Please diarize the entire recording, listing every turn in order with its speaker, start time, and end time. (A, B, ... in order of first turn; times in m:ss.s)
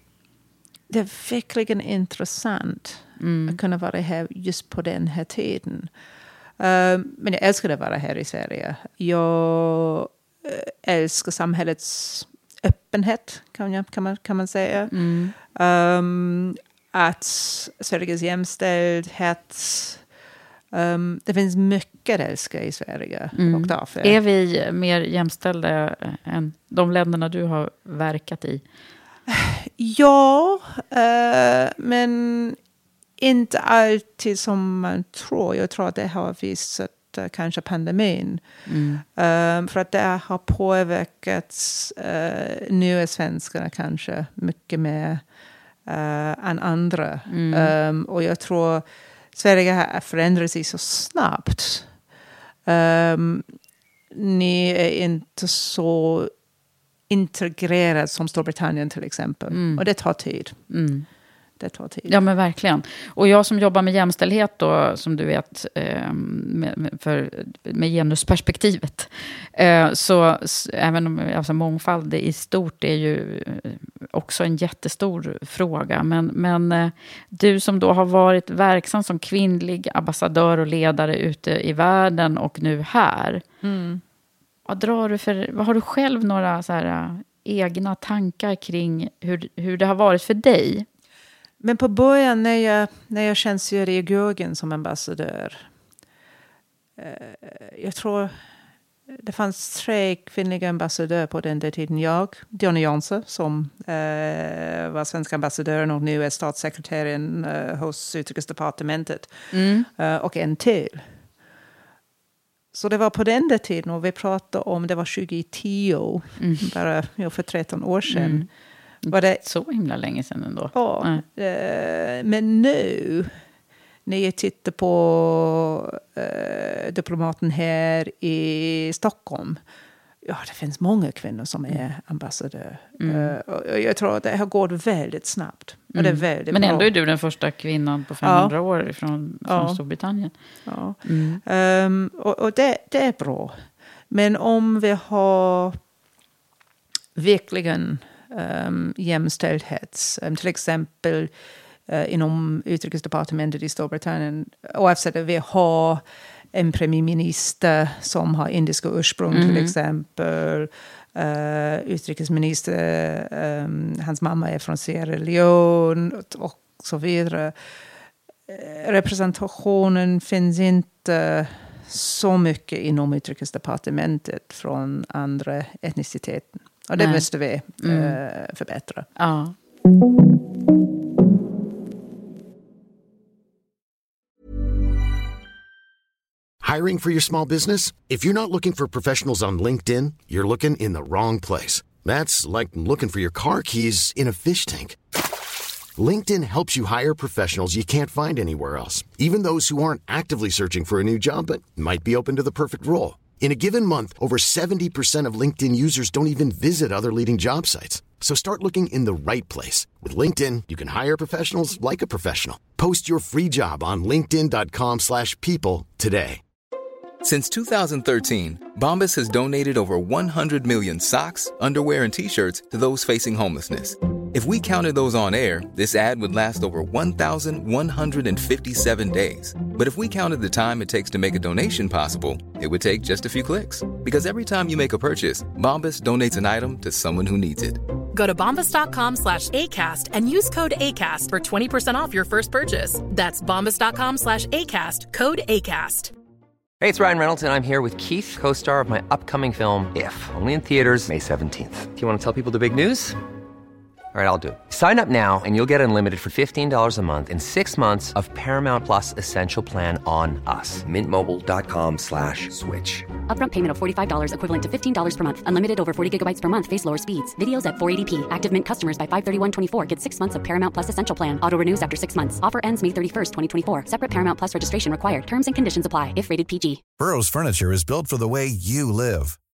0:00.9-0:05.9 A
0:03.2-0:03.6 B
0:06.6-0:20.0 A
0:14.9-0:15.3 B
0:20.7-0:24.2 A
0:23.4-0:28.6 B
0:29.3-0:32.6 A
0:33.2-0:38.4 A
0:38.7-0:39.0 B
0:39.2-0:45.2 A
0:45.8-0:51.9 A
0:47.3-0:47.7 B
0:52.6-0:53.5 A
0:54.1-0:56.3 A
0:57.1-1:00.6 A
0:59.5-0:59.8 B
1:00.7-1:01.0 B
1:01.6-1:02.1 A
1:02.1-1:23.4 B
1:23.6-1:24.0 A
1:24.7-1:30.8 B
1:31.6-1:35.7 A
1:37.0-1:38.3 A
1:39.2-1:51.1 A
1:49.5-1:49.9 B
1:52.7-1:58.5 A
1:56.4-1:56.7 B
1:58.1-1:58.5 B
1:59.0-2:01.2 B
1:59.1-1:59.4 A
2:00.7-2:03.3 A
2:04.0-2:09.6 A
2:10.2-2:16.9 A
2:13.0-2:13.3 B
2:15.9-2:20.3 B
2:18.2-2:18.5 A
2:19.4-2:19.8 A
2:20.6-2:25.8 A
2:21.0-2:21.4 B
2:27.2-2:31.3 A
2:31.9-2:47.5 A
2:39.3-2:39.7 B
2:48.5-2:59.1 A
2:57.0-2:57.2 B
2:57.8-2:58.2 B
2:59.2-2:59.5 B
3:06.6-3:15.0 C
3:16.0-3:36.4 C
3:37.2-3:57.8 D
3:58.1-4:06.1 E
4:06.8-4:13.2 F
4:14.1-4:23.1 F
4:23.2-4:36.8 G
4:37.0-4:39.4 H